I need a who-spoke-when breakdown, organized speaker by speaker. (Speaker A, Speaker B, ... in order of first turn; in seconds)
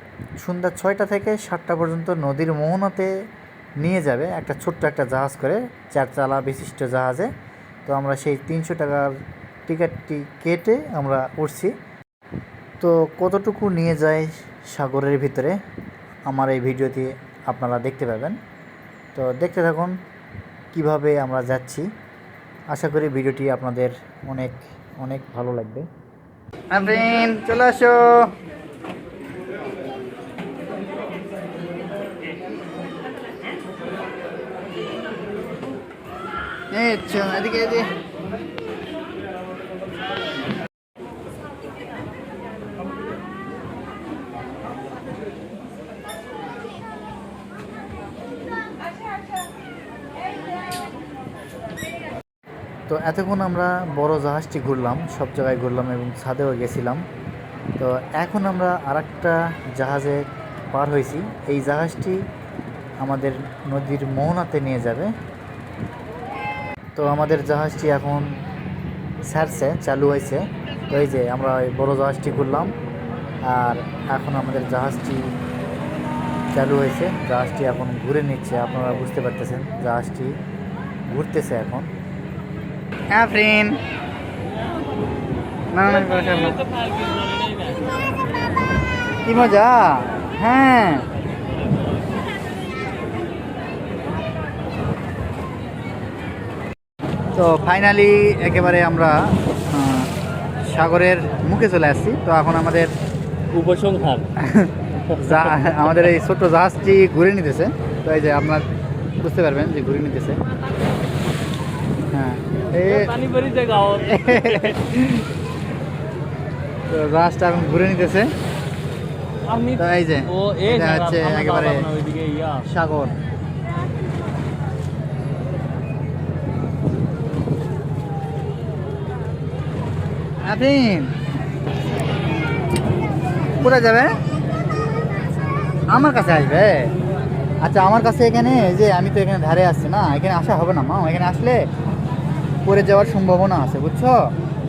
Speaker A: 0.4-3.1, 3.8-7.3, 7.9-9.1, 9.7-11.7, 12.8-15.6, 16.3-18.4, 19.1-19.9, 20.7-21.9, 22.7-25.9, 26.7-28.3, 36.7-37.9, 52.9-57.0, 57.8-62.2, 63.0-65.1, 67.0-68.3, 69.2-72.7, 73.5-75.2, 76.5-80.3, 81.1-81.9, 83.1-83.8, 85.7-86.6, 89.3-91.0, 97.3-99.2, 99.7-100.1, 100.7-102.9, 105.2-108.7, 109.2-110.4, 112.1-113.2, 114.0-115.3, 116.9-118.3, 119.8-121.9, 122.6-123.2, 130.5-131.1, 133.6-134.2, 135.9-136.9, 137.6-141.7, 142.7-144.3
Speaker B: 103.5-104.3, 105.1-105.8, 113.1-114.6, 119.5-119.8, 120.3-122.6